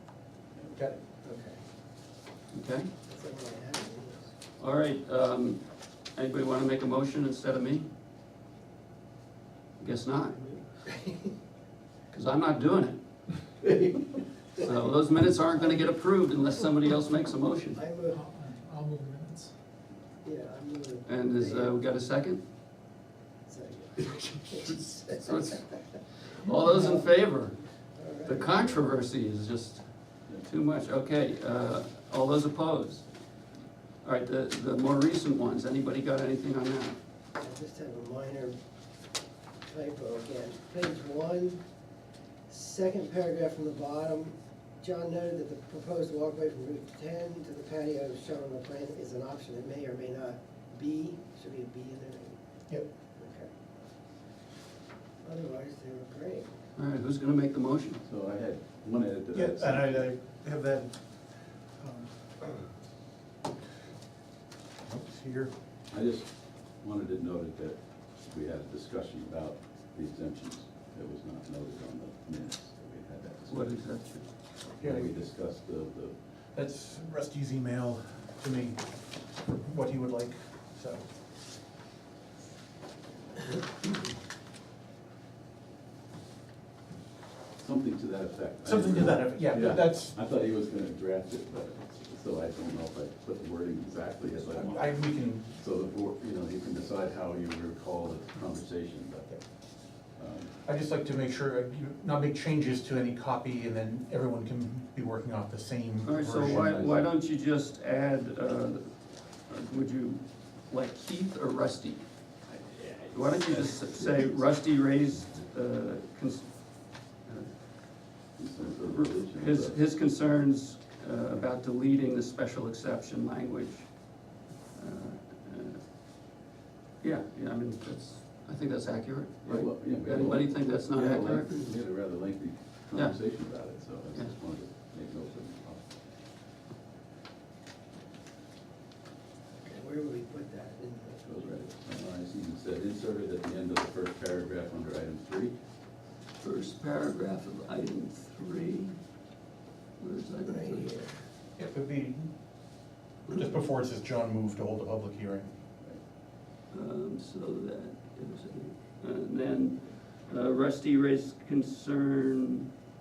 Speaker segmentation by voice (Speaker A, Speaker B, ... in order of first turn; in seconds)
Speaker A: 1.2-1.6, 3.0-4.3, 10.5-11.3, 14.5-15.9, 17.8-18.2, 20.2-21.7, 23.5-23.9, 24.5-26.0, 27.9-28.9, 37.4-38.6, 39.7-41.6, 42.5-52.4, 53.1-53.5, 55.2-56.5, 139.6-141.2, 150.5-151.1
Speaker B: 2.5-2.9, 4.6-7.9, 9.8-10.5, 12.1-13.0, 14.6-17.8, 21.1-22.4, 24.1-33.1, 34.0-37.0, 56.8-58.0, 73.5-74.3, 106.0-108.9, 109.5-116.5, 117.2-117.5, 118.6-125.8, 127.0-131.6, 132.9-133.3, 146.4-149.0, 150.0-151.1, 156.7-162.7
Speaker C: 18.1-19.5, 58.0-60.1, 65.9-73.8, 74.8-76.2, 87.6-100.6, 106.6-107.1, 118.4-119.8, 129.4-135.8, 141.2-145.5
Speaker D: 59.3-62.5, 64.8-65.5, 74.8-75.1, 76.5-81.0, 88.6-90.2, 94.4-95.5, 100.6-106.8, 151.6-152.3, 153.2-155.5